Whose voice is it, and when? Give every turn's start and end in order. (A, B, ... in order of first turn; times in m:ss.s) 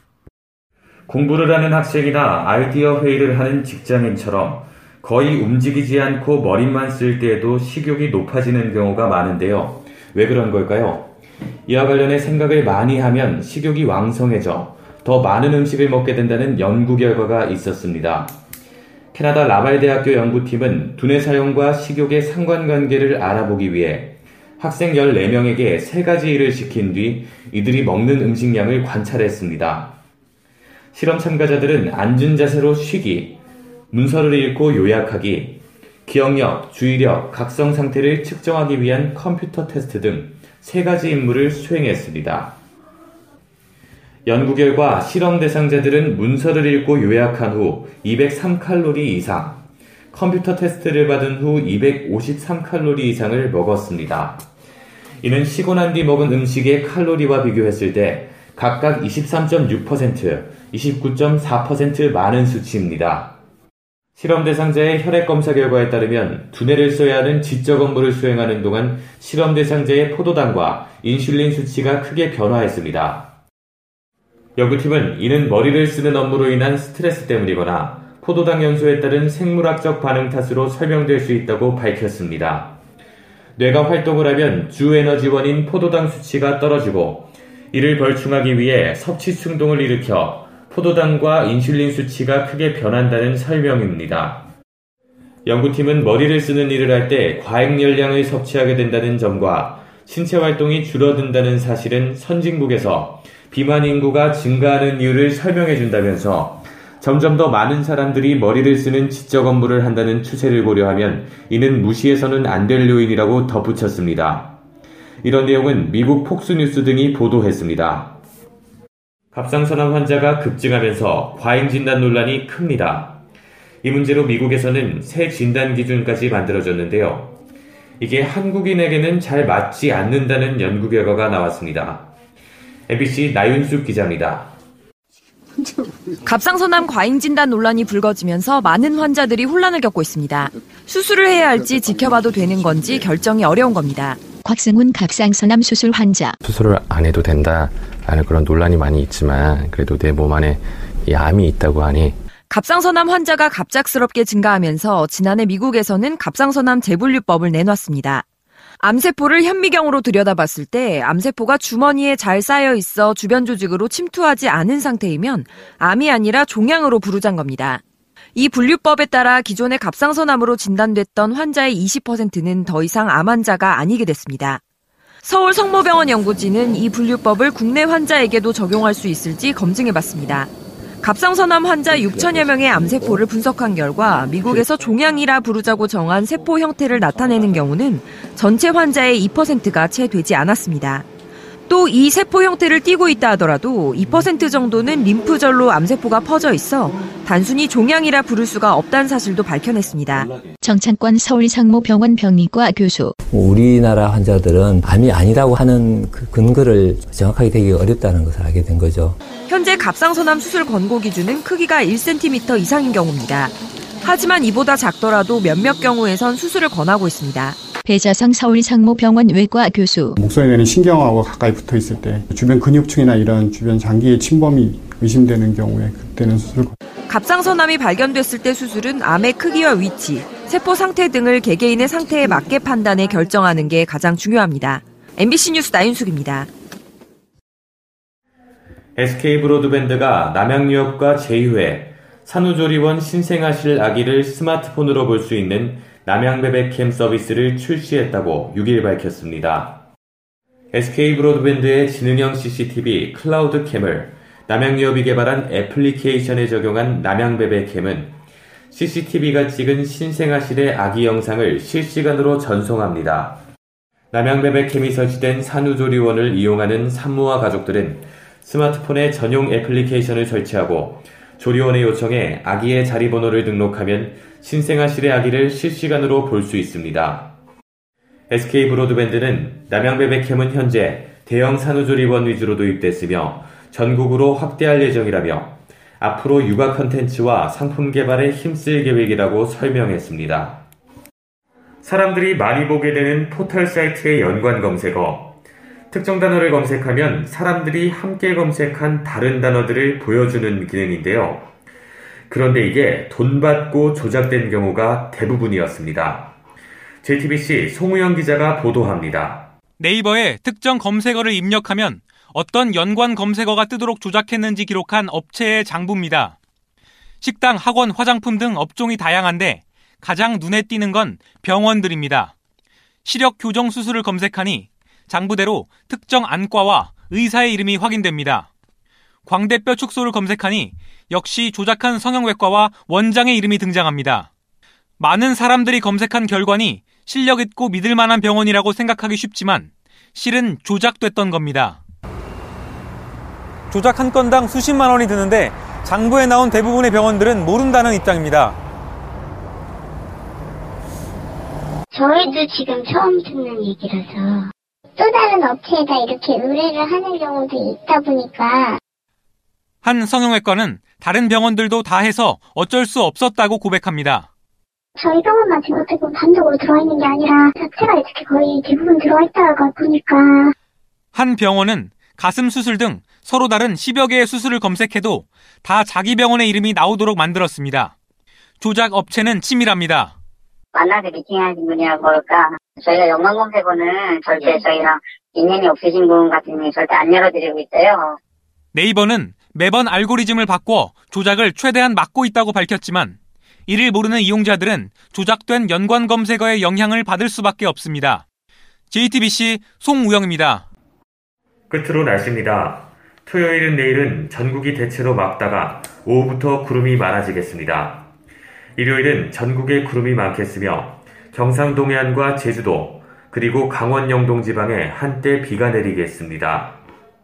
0:01.1-0:11.1 A
0:11.7-0:18.3 A
0:19.1-0:30.0 A
0:30.9-0:33.4 A
0:33.9-0:42.6 A
0:44.3-0:49.6 A
0:50.1-0:54.4 A
0:55.2-1:03.4 A
1:04.2-1:13.3 A
1:14.6-1:22.8 A
1:23.6-1:34.5 A
1:35.5-1:54.6 A
1:55.2-1:58.2 A
1:59.3-2:03.2 A
2:03.8-2:07.4 A
2:08.0-2:12.1 A
2:12.9-2:14.6 A
2:16.2-2:24.2 B
2:24.4-2:26.4 C
2:26.4-2:32.2 D
2:32.5-2:38.2 B
2:38.8-2:47.8 B
2:48.4-2:54.6 B
2:55.2-3:11.1 B
3:02.2-3:02.4 E
3:11.7-3:20.3 B
3:20.6-3:23.2 C
3:23.3-3:29.2 E
3:29.5-3:37.6 B
3:37.8-3:40.2 C
3:40.2-3:46.8 F
3:47.1-3:56.5 B
3:59.0-4:09.8 A
4:10.7-4:18.2 A
4:18.7-4:23.4 A
4:24.1-4:37.3 A
4:38.3-4:50.6 A
4:51.8-4:55.4 A
4:55.9-5:01.5 A
5:02.3-5:06.3 A
5:07.0-5:09.5 A
5:09.8-5:16.4 G
5:17.2-5:22.3 G
5:23.0-5:28.5 G
5:29.3-5:34.3 G
5:35.0-5:41.8 G
5:43.7-5:48.6 G
5:52.0-5:52.4 H
5:53.0-5:54.4 H
5:55.0-5:58.8 H
5:59.8-6:04.3 G
6:05.0-6:10.5 H
6:11.1-6:17.9 G
6:18.6-6:20.1 G
6:20.7-6:28.2 I
6:28.7-6:33.2 G
6:33.7-6:38.2 G
6:38.9-6:40.7 G
6:41.7-6:48.1 A
6:48.8-6:56.8 A